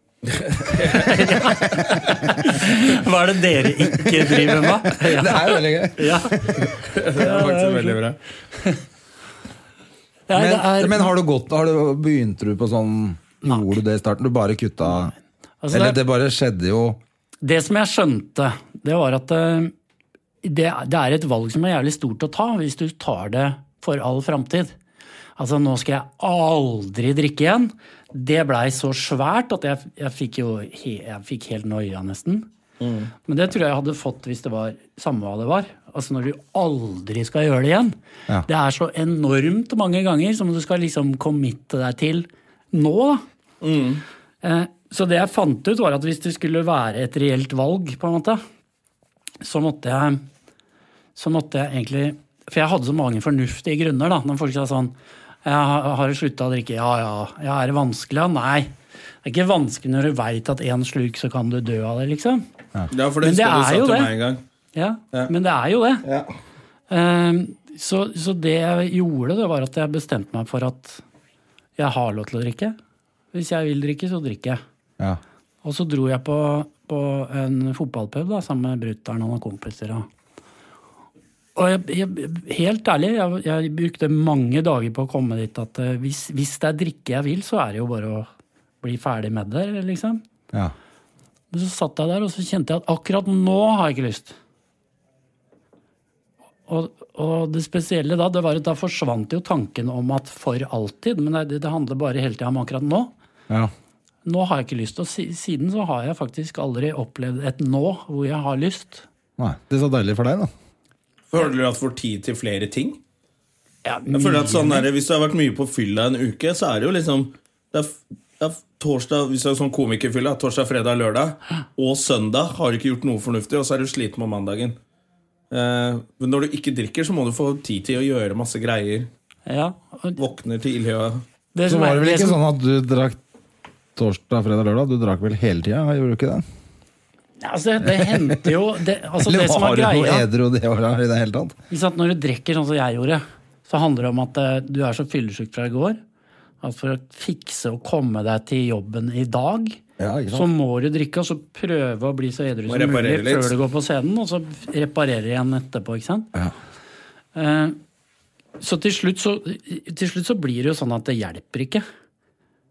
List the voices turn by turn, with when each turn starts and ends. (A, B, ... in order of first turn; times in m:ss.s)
0:00.3-0:01.2 A
0:00.9-0:06.5 B
0:04.2-0:06.7 C
0:06.9-0:08.2 A
0:07.2-0:08.0 B
0:08.6-0:08.8 B
0:10.3-0:11.1 B
0:10.3-0:15.1 C
0:15.6-0:16.0 B
0:15.7-0:17.0 C
0:17.4-0:19.7 B
0:20.4-0:24.8 B
0:25.4-0:32.5 B
0:32.8-0:33.1 A
0:33.3-0:38.0 B
0:38.5-0:43.2 B
0:43.6-0:44.0 A
0:44.4-0:48.4 B
0:49.4-0:50.2 B
0:51.2-0:58.7 B
0:59.2-1:02.4 B
1:02.9-1:04.4 A
1:03.2-1:04.1 B
1:04.8-1:06.0 B
1:06.0-1:06.3 A
1:06.9-1:11.0 B
1:11.8-1:12.8 B
1:13.3-1:14.6 B
1:15.6-1:20.1 B
1:21.6-1:28.3 B
1:28.8-1:30.2 B
1:31.5-1:34.4 B
1:36.7-1:43.1 B
1:44.2-1:49.1 B
1:49.4-1:50.5 C
1:51.3-1:53.0 A
1:53.8-1:54.9 B
1:54.1-2:04.8 A
2:05.5-2:09.1 A
2:09.5-2:10.2 B
2:10.2-2:11.2 A
2:11.6-2:12.4 B
2:11.7-2:13.2 C
2:14.0-2:16.4 C
2:17.4-2:20.3 B
2:17.8-2:18.5 C
2:19.2-2:21.6 C
2:21.7-2:26.0 B
2:26.6-2:29.8 B
2:30.0-2:30.5 C
2:30.3-2:36.3 B
2:32.7-2:33.5 A
2:37.4-2:37.8 B
2:38.6-2:41.8 B